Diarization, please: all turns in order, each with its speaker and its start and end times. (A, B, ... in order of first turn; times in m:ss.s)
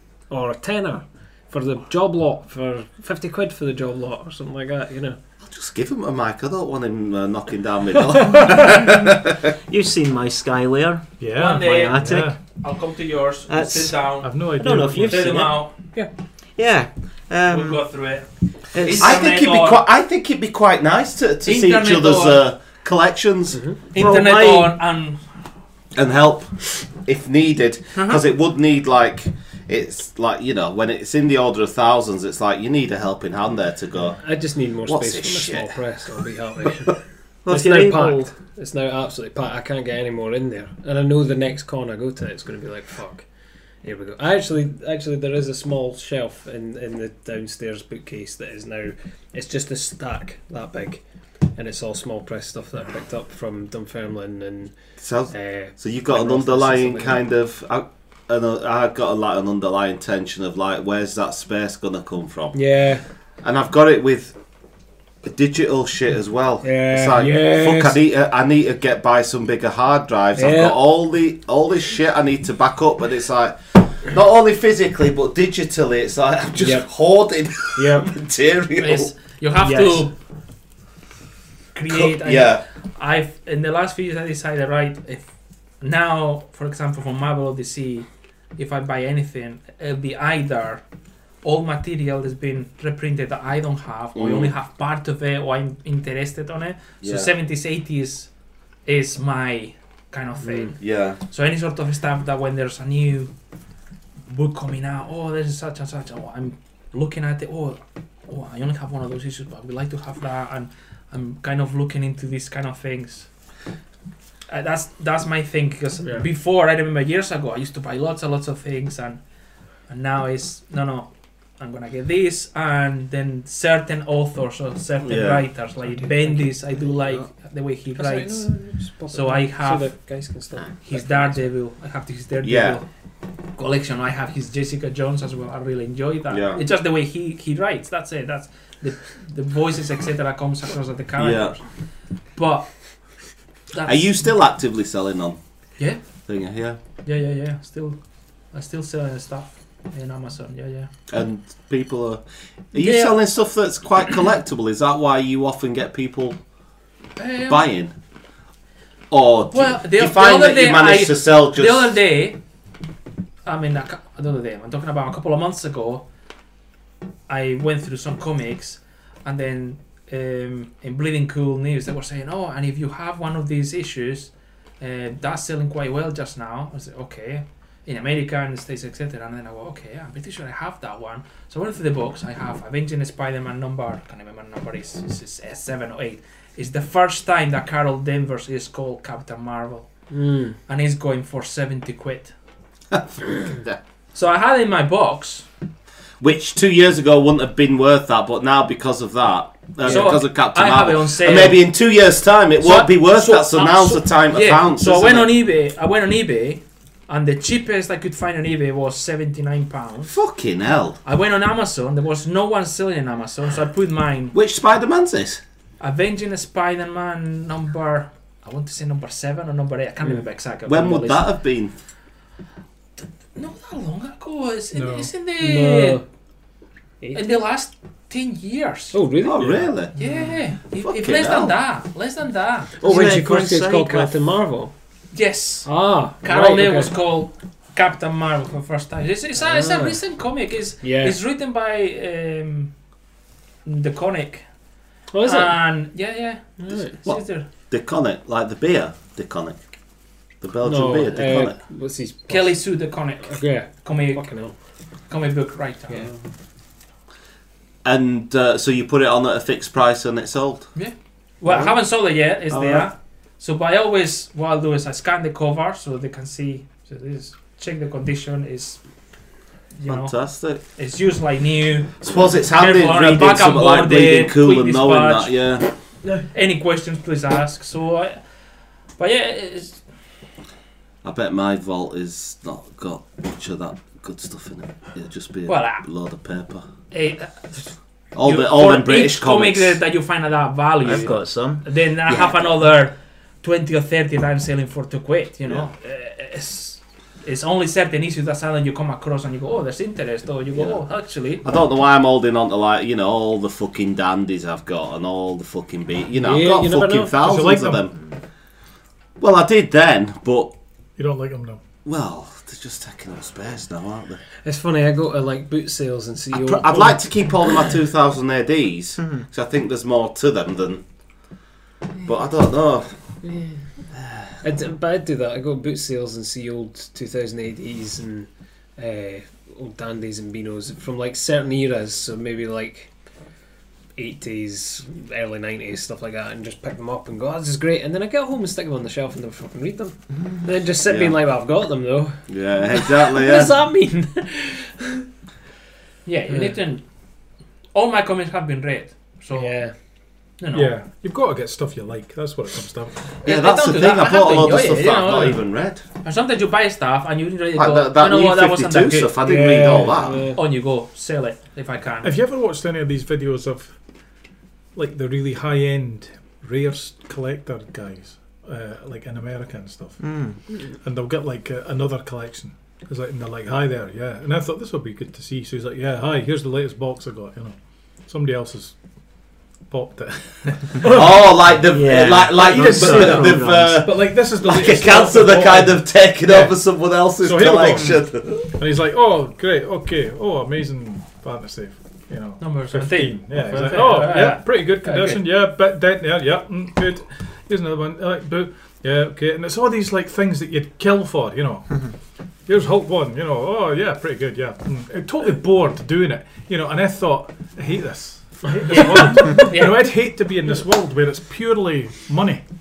0:00.3-0:05.2 A
0:05.4-0:09.4 B
0:09.7-0:12.4 C
0:11.2-0:12.4 D
0:11.3-0:14.3 E
0:13.5-0:15.9 C
0:14.2-0:15.3 D
0:14.9-0:15.7 E
0:15.3-0:16.1 A
0:16.6-0:17.9 C
0:17.5-0:19.8 E
0:18.7-0:19.0 C
0:18.9-0:23.6 B
0:21.4-0:22.4 E
0:23.5-0:23.8 A
0:23.9-0:25.2 E
0:24.0-0:24.7 C
0:25.9-0:35.7 B
0:34.2-0:43.3 A
0:37.4-0:38.3 C
0:43.8-0:51.0 A
0:51.5-0:54.8 A
0:55.0-1:02.6 B
0:55.3-0:57.2 A
1:02.5-1:03.0 A
1:03.4-1:04.4 B
1:05.2-1:19.1 B
1:06.6-1:08.0 A
1:10.3-1:10.8 A
1:16.6-1:16.9 A
1:17.7-1:18.1 A
1:18.8-1:20.1 E
1:19.6-1:20.1 A
1:21.7-1:25.3 E
1:21.9-1:22.6 B
1:25.8-1:30.8 E
1:31.4-1:38.3 E
1:34.1-1:34.5 B
1:37.0-1:37.3 B
1:38.8-1:43.3 E
1:40.7-1:41.2 B
1:44.2-1:53.3 E
1:54.5-1:59.2 E
1:59.9-2:08.5 E
2:05.0-2:05.5 B
2:05.9-2:06.8 A
2:07.9-2:11.4 A
2:09.1-2:10.0 E
2:10.8-2:12.8 E
2:12.4-2:12.8 B
2:13.6-2:21.6 E
2:16.3-2:16.6 B
2:21.2-2:21.6 B
2:22.3-2:22.7 E
2:23.7-2:24.1 E
2:23.8-2:25.4 B
2:26.2-2:26.8 B
2:27.0-2:28.0 E
2:28.5-2:30.9 E
2:31.1-2:36.4 B
2:32.7-2:33.2 E
2:37.2-2:37.7 E
2:37.4-2:37.9 B
2:39.1-2:42.0 B
2:39.5-2:42.4 E
2:43.4-2:46.0 E
2:47.3-3:09.9 E
3:10.1-3:10.6 A
3:10.6-3:12.3 E
3:12.9-3:13.8 B
3:14.1-3:15.4 E
3:16.2-3:25.3 B
3:19.8-3:20.2 A
3:19.8-3:21.6 E
3:22.6-3:30.1 E
3:30.0-3:31.0 B
3:31.0-3:34.3 E
3:34.3-3:35.4 B
3:35.8-3:41.3 E
3:40.6-3:41.7 B
3:43.0-3:46.0 E
3:44.7-3:45.1 D
3:45.4-3:46.0 A
3:47.1-3:49.0 E
3:48.9-3:50.2 A
3:49.2-3:50.0 B
3:49.9-3:52.8 E
3:50.8-3:51.6 B
3:52.8-3:54.7 A
3:52.8-3:54.1 C
3:55.1-4:02.7 E
3:55.6-3:56.9 A
3:59.4-4:00.0 A
4:00.8-4:01.2 A
4:03.6-4:04.5 E
4:05.1-4:05.6 A
4:05.2-4:07.5 E
4:06.6-4:06.9 A
4:07.0-4:09.6 B
4:10.4-4:11.6 B
4:10.6-4:12.6 A
4:12.3-4:14.4 E
4:13.2-4:14.6 A
4:15.1-4:16.1 E
4:15.9-4:16.2 A
4:17.8-4:20.7 B
4:20.7-4:28.8 E
4:21.4-4:21.8 B
4:22.5-4:22.9 B
4:29.8-4:30.1 E
4:29.9-4:30.6 B
4:30.7-4:35.4 E
4:32.0-4:35.7 B
4:36.1-4:38.2 E
4:39.0-4:39.8 E
4:41.0-4:46.7 B
4:45.5-4:45.8 E
4:46.9-5:01.5 E
4:48.1-4:49.8 B
4:50.8-4:51.6 C
4:52.1-4:52.6 B
5:00.5-5:00.8 B
5:01.4-5:08.0 B
5:06.2-5:07.1 A
5:07.2-5:07.9 D
5:09.2-5:10.5 B
5:11.0-5:11.6 D
5:11.8-5:14.2 B
5:14.4-5:17.1 A
5:16.3-5:20.8 B
5:22.0-5:22.9 B
5:23.2-5:23.6 A
5:24.4-5:32.9 A
5:34.0-5:45.0 A
5:40.9-5:41.2 B
5:42.3-5:43.6 B
5:46.0-5:46.8 E
5:46.3-5:46.6 A
5:47.7-5:49.6 E
5:49.3-5:49.7 A
5:50.4-5:50.7 E
5:50.5-5:53.1 D
5:53.2-5:55.4 E
5:53.2-5:55.8 B
5:56.0-5:59.1 E
5:57.5-6:00.3 B
5:59.2-6:00.4 A
6:00.3-6:02.1 E
6:02.0-6:03.8 D
6:04.7-6:10.2 D
6:10.0-6:10.4 C
6:10.8-6:18.8 D
6:19.7-6:21.3 D
6:20.8-6:28.5 B
6:21.7-6:23.8 C
6:22.3-6:26.6 D
6:27.2-6:41.9 D
6:32.4-6:35.2 E
6:42.4-6:52.4 D
6:48.7-6:49.9 E